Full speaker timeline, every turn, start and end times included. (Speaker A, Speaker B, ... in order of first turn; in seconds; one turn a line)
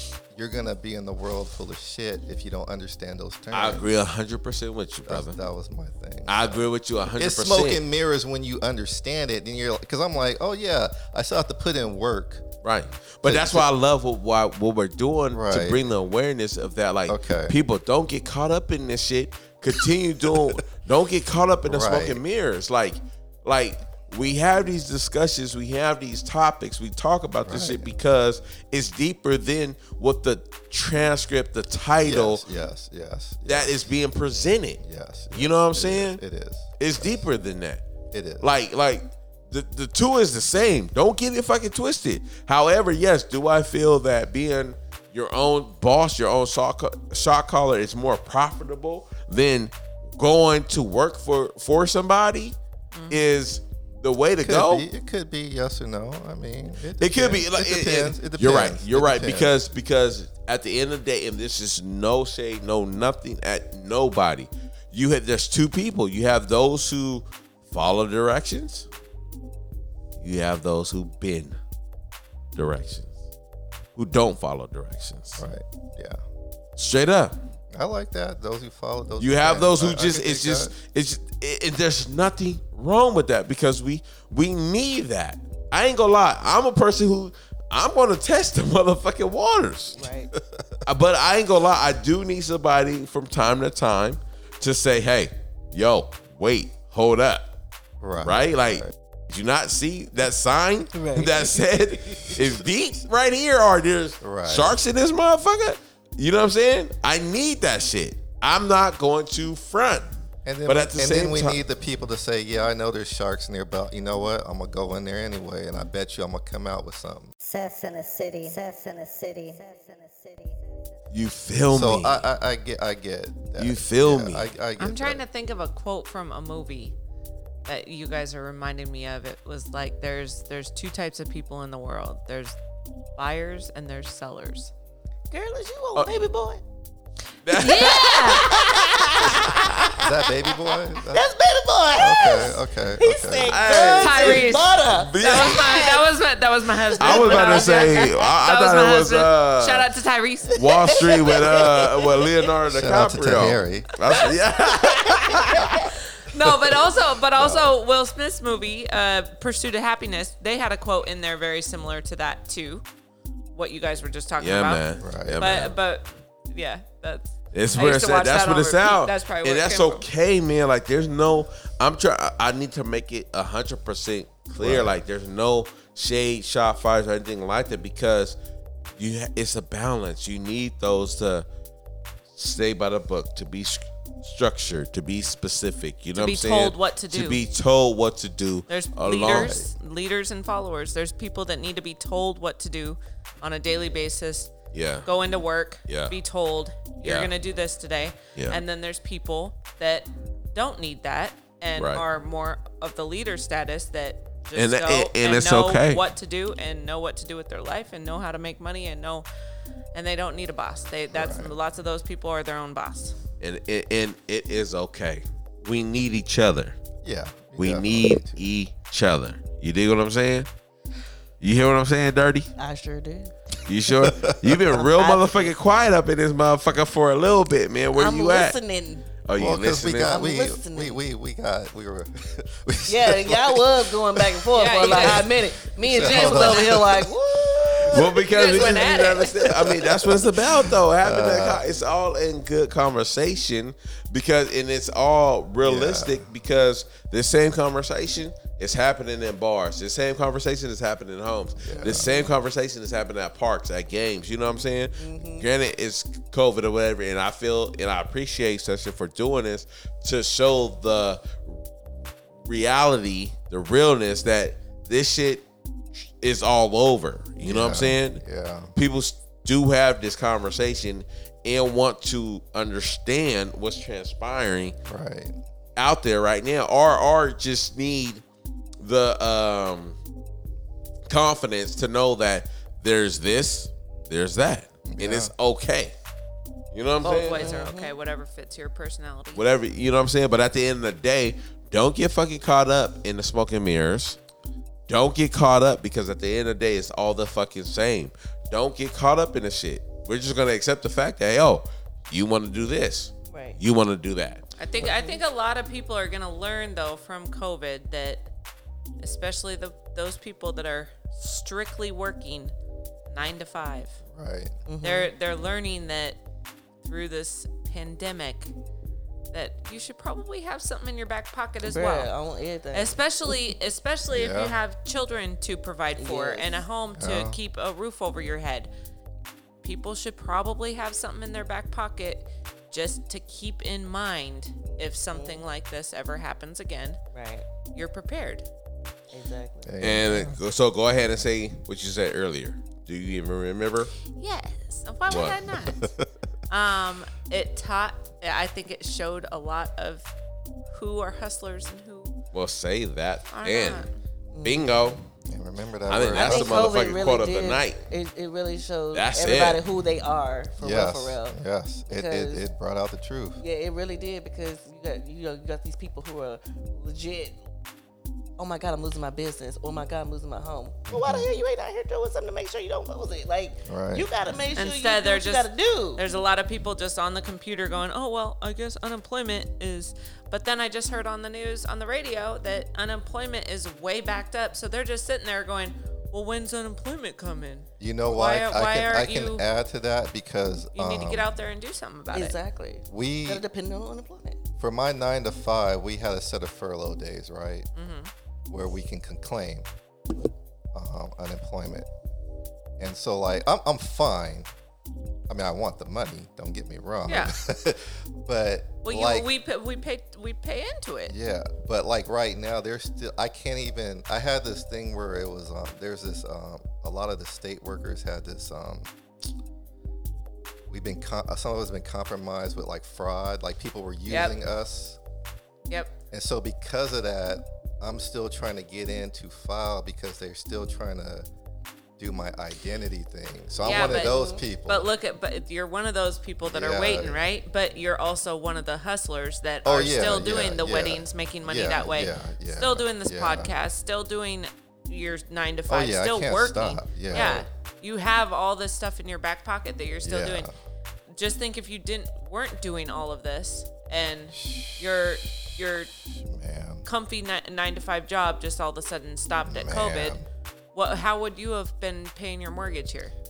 Speaker A: 0.3-3.9
Speaker B: 3.5-5.4
Speaker A: 5.1-6.6
Speaker B: 6.3-7.8
Speaker A: 7.2-12.4
Speaker B: 12.6-32.4
Speaker A: 13.2-13.7
Speaker A: 15.3-15.8
Speaker A: 17.1-17.5
Speaker A: 20.3-20.6
Speaker A: 21.6-22.2
Speaker A: 27.4-27.9
Speaker A: 32.0-33.9
Speaker B: 33.5-34.8
Speaker A: 34.8-37.2
Speaker B: 35.3-36.2
Speaker B: 36.8-37.8
Speaker A: 38.1-38.5
Speaker B: 38.4-52.5
Speaker C: 52.9-53.3
Speaker B: 53.1-54.9
Speaker A: 54.4-59.5
Speaker B: 57.0-68.9
Speaker B: 70.2-71.6
Speaker B: 72.5-73.1
Speaker B: 74.0-75.4
Speaker A: 75.4-76.2
Speaker B: 76.8-77.3
Speaker A: 77.7-80.7
Speaker B: 79.2-90.0
Speaker D: 90.0-90.3
Speaker B: 90.8-97.5
Speaker A: 98.0-98.9
Speaker B: 98.2-110.1
Speaker D: 100.9-102.3
Speaker A: 104.2-104.8
Speaker A: 110.4-117.3
Speaker B: 110.7-111.6
Speaker E: 117.4-120.7
Speaker B: 121.1-122.2
Speaker A: 121.7-125.2
Speaker B: 123.6-124.5
Speaker C: 124.8-126.9
Speaker C: 127.7-132.6
Speaker C: 133.2-134.7
Speaker D: 135.3-136.6
Speaker B: 135.9-136.2
Speaker B: 137.4-139.9
Speaker D: 137.5-146.1
Speaker C: 137.5-138.5
Speaker A: 140.0-141.3
Speaker A: 141.9-143.6
Speaker B: 143.5-145.9
Speaker C: 143.9-151.0
Speaker D: 146.8-148.3
Speaker B: 147.0-149.9
Speaker D: 150.5-152.4
Speaker B: 150.5-155.9
Speaker A: 152.7-153.9
Speaker D: 155.1-155.6
Speaker C: 156.2-162.8
Speaker A: 157.3-157.7
Speaker C: 163.5-164.8
Speaker B: 164.4-165.7
Speaker A: 165.0-165.6
Speaker C: 165.4-170.1
Speaker B: 167.5-178.4
Speaker A: 174.6-175.0
Speaker B: 179.0-181.4
Speaker B: 182.3-189.6
Speaker C: 186.1-187.4
Speaker C: 188.7-194.5
Speaker A: 189.3-189.7
Speaker B: 194.7-195.1
Speaker C: 195.0-209.2
Speaker B: 195.9-196.1
Speaker B: 197.0-197.3
Speaker B: 201.8-202.0
Speaker B: 204.5-206.0
Speaker C: 209.9-213.2
Speaker A: 211.1-211.5
Speaker B: 213.4-216.8
Speaker A: 217.0-218.5
Speaker B: 217.6-220.5
Speaker B: 221.4-222.5
Speaker D: 222.6-223.3
Speaker B: 223.6-228.6
Speaker A: 224.0-224.6
Speaker D: 224.7-225.5
Speaker D: 227.9-229.1
Speaker B: 229.2-230.2
Speaker A: 229.3-234.4
Speaker D: 230.0-231.0
Speaker D: 232.9-238.1
Speaker C: 234.5-235.3
Speaker A: 235.0-238.0
Speaker C: 235.9-236.8
Speaker B: 237.8-261.4
Speaker C: 237.9-239.5
Speaker A: 239.8-241.6
Speaker A: 245.6-246.2
Speaker A: 251.6-252.1
Speaker D: 251.7-252.3
Speaker D: 255.0-255.5
Speaker B: 262.4-268.2
Speaker A: 267.4-268.7
Speaker B: 268.8-274.7
Speaker A: 274.9-275.4
Speaker B: 275.8-278.2
Speaker B: 278.8-280.0
Speaker B: 281.1-285.9
Speaker A: 284.8-285.3
Speaker B: 286.7-287.6
Speaker C: 287.0-289.4
Speaker D: 287.3-287.9
Speaker B: 289.3-294.2
Speaker B: 294.9-304.4
Speaker D: 303.3-303.6
Speaker C: 304.6-308.3
Speaker D: 304.8-305.2
Speaker C: 309.0-312.5
Speaker C: 313.1-314.0
Speaker A: 314.1-314.5
Speaker D: 314.7-315.1
Speaker C: 314.8-316.2
Speaker C: 316.8-318.5
Speaker C: 319.3-322.1
Speaker D: 321.6-323.3
Speaker C: 322.7-328.7
Speaker A: 324.1-324.6
Speaker D: 326.0-326.6
Speaker A: 327.0-327.4
Speaker C: 329.6-337.0
Speaker D: 334.7-335.4
Speaker D: 337.1-337.4
Speaker C: 337.7-338.4
Speaker D: 339.1-339.7
Speaker A: 339.6-340.4
Speaker B: 339.8-343.9
Speaker C: 344.1-345.9
Speaker B: 345.1-345.4
Speaker A: 345.5-346.0
Speaker C: 346.5-350.1
Speaker C: 350.7-352.1
Speaker B: 352.3-353.9
Speaker C: 353.3-353.9
Speaker D: 354.3-355.0
Speaker B: 354.4-355.0
Speaker A: 355.2-356.7
Speaker B: 355.9-357.8
Speaker D: 356.1-361.4
Speaker B: 358.9-359.6
Speaker A: 360.6-363.4
Speaker D: 361.9-362.4
Speaker D: 363.4-367.4
Speaker D: 368.4-376.0
Speaker A: 370.9-371.3
Speaker A: 373.7-374.1
Speaker C: 374.5-389.4
Speaker A: 387.8-391.3
Speaker C: 390.7-392.4
Speaker D: 392.1-394.4
Speaker A: 392.9-393.4
Speaker A: 394.6-397.6
Speaker C: 397.7-398.1
Speaker A: 398.5-399.7
Speaker A: 400.7-401.9
Speaker A: 402.8-404.5
Speaker A: 405.3-409.3
Speaker C: 407.1-407.3
Speaker C: 408.8-411.1
Speaker A: 411.1-418.9
Speaker A: 420.7-425.0
Speaker C: 424.1-424.3
Speaker C: 425.7-425.9
Speaker A: 426.1-431.3
Speaker A: 432.0-434.9
Speaker D: 433.6-434.5
Speaker C: 433.6-450.5
Speaker A: 436.4-437.2
Speaker A: 439.6-443.5
Speaker A: 445.7-447.5
Speaker A: 450.0-450.5
Speaker C: 451.1-455.9
Speaker A: 454.3-454.8
Speaker A: 456.2-456.9
Speaker C: 456.9-460.2
Speaker A: 459.4-460.2
Speaker C: 460.7-463.1